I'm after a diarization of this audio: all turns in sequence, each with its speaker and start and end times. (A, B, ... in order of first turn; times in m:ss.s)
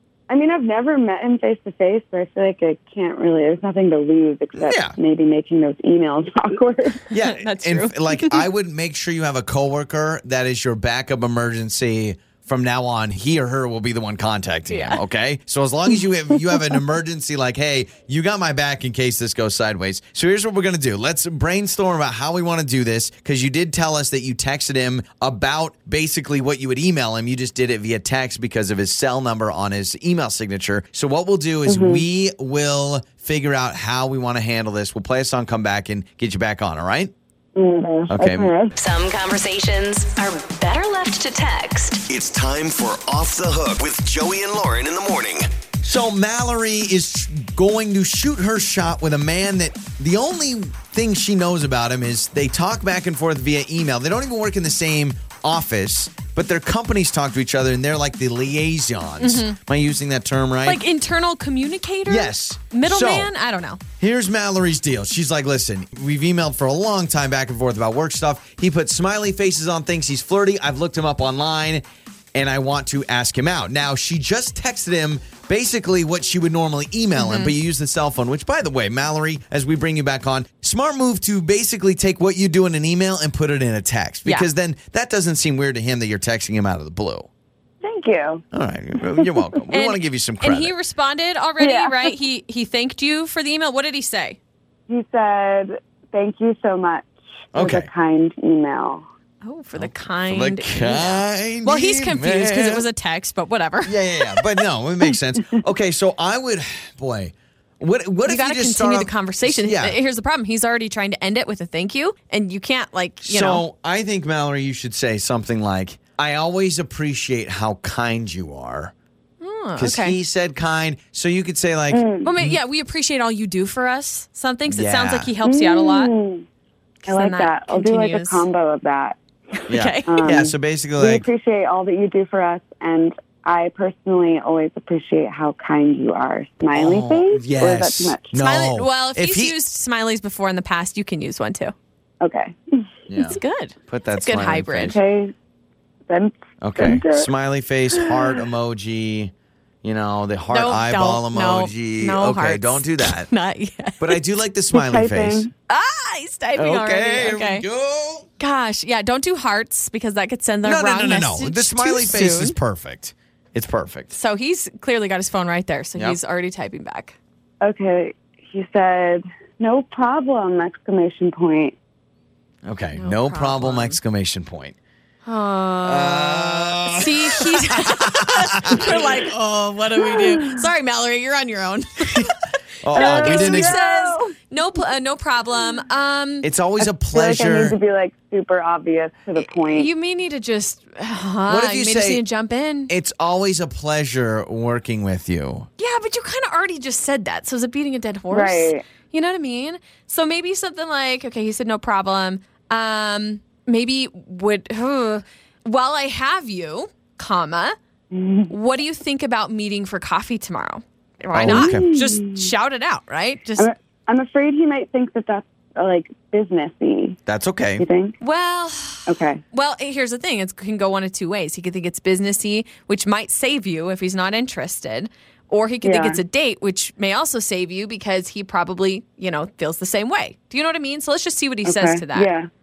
0:00.3-0:07.0 A
0:04.6-0:05.0 B
0:07.1-0:37.1 B
0:07.2-0:08.4 C
0:14.7-0:15.0 C
0:31.6-0:32.0 A
0:37.5-0:38.7 A
0:38.1-0:38.5 B
0:38.8-0:42.0 D
0:42.1-0:45.5 E
0:45.8-1:00.8 B
0:59.2-0:59.6 C
1:00.6-1:03.8 C
1:02.1-1:03.3 B
1:04.0-1:11.8 B
1:12.3-1:27.3 B
1:17.2-1:17.5 C
1:27.8-1:28.4 A
1:28.5-1:30.7 B
1:29.7-1:34.4 C
1:31.6-1:32.1 A
1:34.9-1:39.0 A
1:37.5-1:37.9 B
1:39.4-1:44.4 C
1:39.8-1:42.8 B
1:43.8-1:50.0 B
1:48.2-1:53.6 C
1:53.2-1:58.9 B
1:59.4-2:00.2 C
1:59.8-2:02.6 B
2:01.9-2:02.3 A
2:02.2-2:06.1 C
2:04.7-2:05.3 B
2:05.4-2:06.4 A
2:07.0-2:08.5 C
2:07.1-2:09.2 A
2:09.7-2:10.3 C
2:09.7-2:11.3 B
2:10.0-2:18.3 A
2:16.7-2:19.6 B
2:18.4-2:21.7 C
2:22.2-2:22.9 A
2:23.1-2:25.0 B
2:23.2-2:25.0 C
2:24.8-2:25.3 A
2:26.1-2:27.3 A
2:26.6-2:29.3 B
2:29.8-2:33.3 B
2:30.5-2:34.2 C
2:34.0-2:35.4 B
2:34.7-2:35.5 A
2:35.7-2:37.6 C
2:36.6-2:38.3 B
2:38.4-2:42.6 C
2:40.6-2:44.1 B
2:44.1-2:47.2 C
2:47.6-2:51.7 A
2:52.6-2:54.8 B
2:52.9-2:54.0 C
2:55.2-3:06.5 C
2:55.8-2:59.1 B
3:00.0-3:00.5 A
3:02.8-3:03.8 B
3:02.9-3:04.3 A
3:06.4-3:07.8 B
3:06.8-3:09.9 A
3:09.4-3:12.9 C
3:11.5-3:12.2 B
3:12.9-3:15.7 B
3:15.8-3:27.8 C
3:18.3-3:18.8 A
3:28.1-3:28.5 A
3:28.5-3:33.7 C
3:31.3-3:31.9 B
3:31.4-3:32.5 A
3:33.6-3:37.2 A
3:37.3-3:37.8 B
3:37.8-3:38.2 A
3:38.2-3:52.3 C
3:39.1-3:39.4 A
3:45.8-3:46.2 A
3:51.6-3:52.5 A